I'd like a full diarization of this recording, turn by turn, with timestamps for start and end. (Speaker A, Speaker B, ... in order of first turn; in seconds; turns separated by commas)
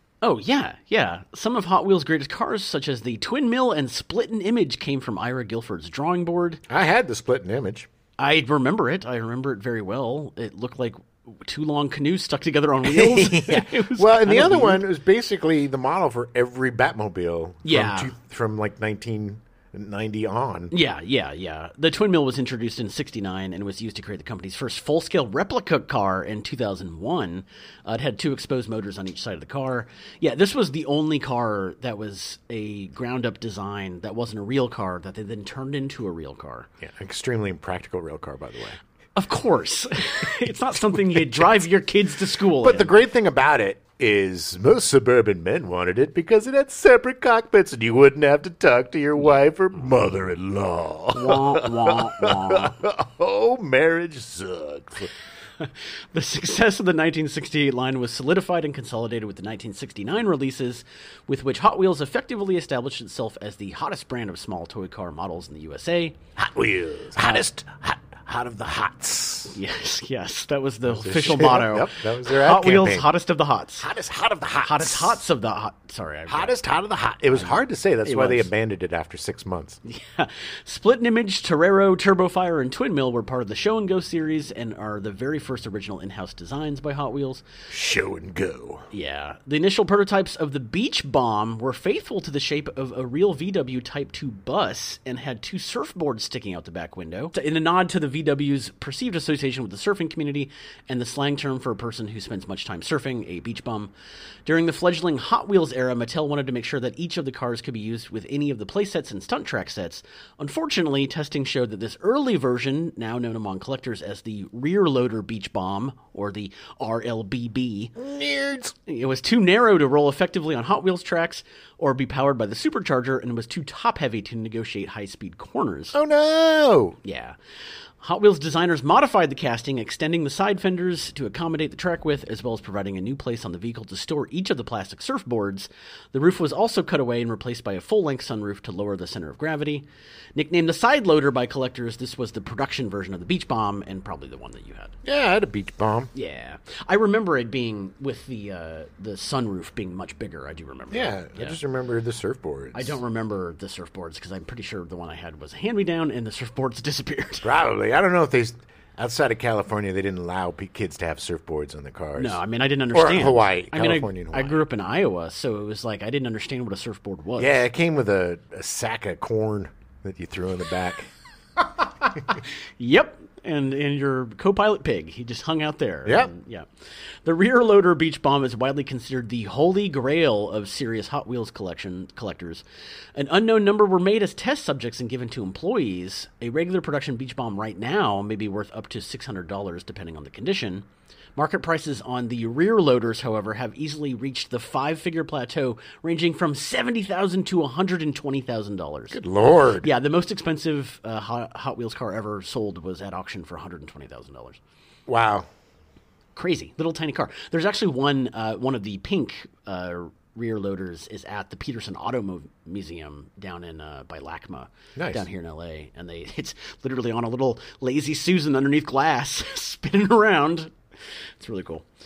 Speaker A: 0.2-6.6, Speaker B: 6.7-7.9, Speaker A: 8.2-14.8, Speaker B: 12.8-20.7, Speaker A: 17.6-18.1, Speaker A: 20.7-36.7, Speaker B: 36.8-38.8, Speaker A: 39.1-42.9, Speaker B: 40.5-41.6, Speaker B: 42.4-55.1, Speaker A: 51.1-52.8, Speaker A: 55.6-66.2, Speaker B: 66.4-69.6, Speaker A: 67.2-67.5, Speaker A: 69.5-73.9, Speaker B: 70.9-73.1, Speaker B: 73.8-75.2, Speaker A: 74.6-76.6, Speaker B: 76.3-79.8, Speaker A: 77.3-78.5, Speaker A: 79.9-87.4, Speaker B: 87.7-88.9, Speaker A: 88.9-103.9, Speaker A: 104.5-117.9, Speaker B: 118.0-118.8, Speaker A: 118.9-126.0, Speaker B: 125.9-127.0, Speaker A: 127.0-127.4, Speaker A: 128.0-139.8, Speaker A: 140.4-144.9, Speaker B: 145.0-146.1, Speaker A: 146.1-151.6, Speaker B: 150.9-153.0, Speaker A: 152.7-157.5, Speaker B: 157.4-162.4, Speaker A: 162.2-167.6, Speaker B: 162.9-164.6, Speaker B: 167.4-171.1, Speaker A: 172.8-176.7, Speaker B: 176.1-176.3, Speaker A: 177.2-182.6, Speaker A: 183.2-199.2, Speaker B: 199.1-199.9, Speaker A: 199.8-204.6, Speaker B: 205.1-205.5, Speaker A: 206.4-220.7, Speaker B: 214.9-215.2, Speaker A: 221.4-221.8